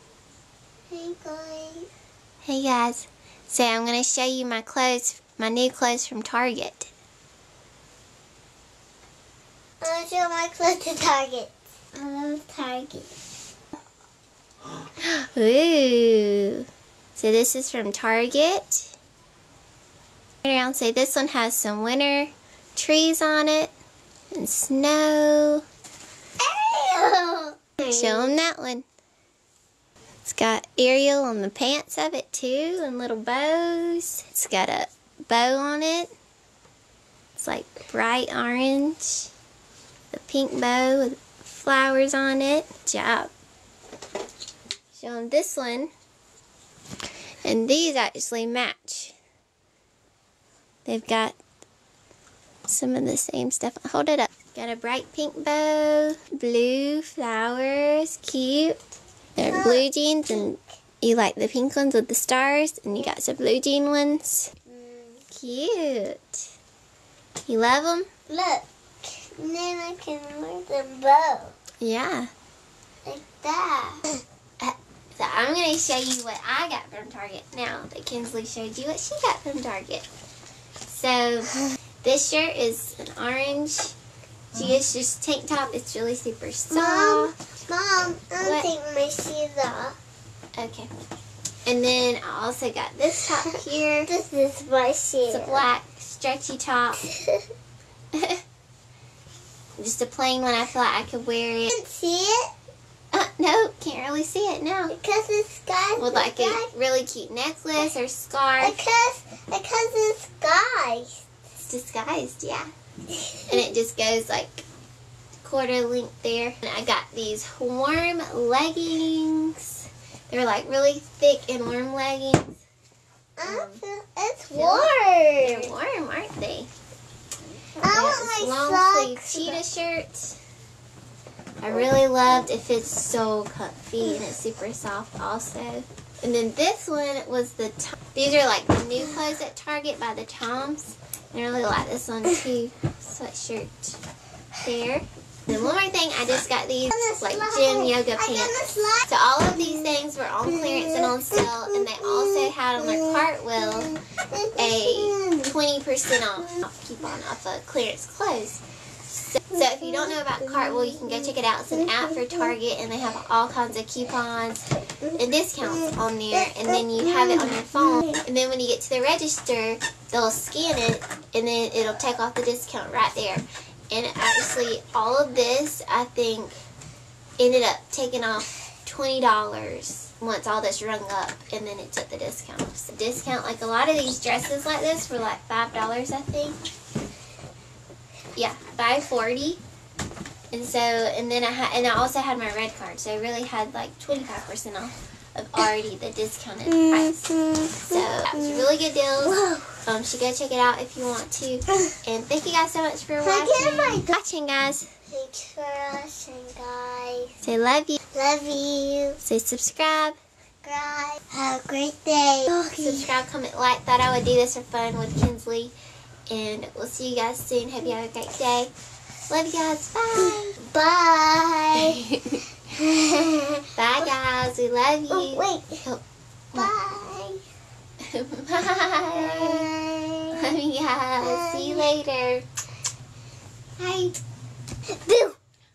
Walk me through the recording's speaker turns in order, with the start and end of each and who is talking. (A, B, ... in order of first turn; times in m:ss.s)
0:00.9-0:01.9 A
0:02.4-0:06.9 B
0:09.8-0:13.1 A
0:15.0-0:18.9 B
0:20.4-0:23.7 B
0:24.3-0:25.6 B
0:26.4-0:27.7 A
0:27.8-0:28.8 B
0:30.2-0:36.1 B
0:37.4-0:39.3 B
0:40.1-0:43.3 B
0:44.9-0:45.9 B
0:47.4-0:49.2 B
0:50.9-0:51.4 B
0:52.7-0:58.8 B
0:59.4-1:04.5 B
0:59.5-1:00.6 A
1:04.7-1:05.2 A
1:05.3-1:06.5 B
1:07.5-1:08.1 B
1:08.3-1:11.5 A
1:11.8-1:12.3 B
1:13.1-1:14.0 A
1:14.6-1:20.1 B
1:20.9-1:24.0 B
1:24.5-1:27.3 B
1:26.7-1:30.0 A
1:28.4-1:28.7 B
1:30.6-1:30.9 B
1:31.7-1:34.1 B
1:34.0-1:35.6 A
1:35.3-1:37.0 B
1:37.1-1:37.4 A
1:38.1-1:38.4 B
1:39.8-1:41.7 B
1:41.7-1:42.5 A
1:43.1-1:45.0 B
1:44.9-1:46.7 A
1:46.0-1:48.8 B
1:48.6-1:51.2 A
1:51.6-1:52.7 B
1:53.1-1:53.5 A
1:53.5-1:54.6 B
1:55.4-2:02.5 B
2:03.4-2:05.7 A
2:03.4-2:03.8 B
2:04.6-2:06.7 B
2:07.8-2:09.6 A
2:07.9-2:10.4 B
2:11.6-2:24.0 B
2:24.6-2:33.9 B
2:26.9-2:29.1 A
2:29.6-2:29.9 A
2:30.5-2:35.5 A
2:34.6-2:38.6 B
2:39.2-2:56.6 B
2:41.9-2:42.3 A
2:47.5-2:48.2 A
2:57.4-3:06.6 B
3:08.4-3:09.6 B
3:10.5-3:17.2 B
3:16.7-3:18.6 A
3:17.8-3:24.9 B
3:19.2-3:19.8 A
3:23.2-3:24.1 A
3:25.1-3:27.4 A
3:27.4-3:28.0 B
3:28.1-3:29.2 A
3:29.2-3:30.2 B
3:30.6-3:33.1 A
3:32.8-3:35.7 B
3:36.3-3:38.7 B
3:39.3-3:40.6 B
3:40.2-3:42.0 A
3:41.9-3:42.4 B
3:42.7-3:43.6 A
3:43.8-3:46.0 B
3:45.1-3:45.8 A
3:46.5-3:47.4 A
3:48.0-3:49.7 B
3:49.2-3:50.4 A
3:50.3-3:52.5 B
3:51.2-3:51.9 A
3:53.8-3:54.2 A
3:54.8-3:55.4 A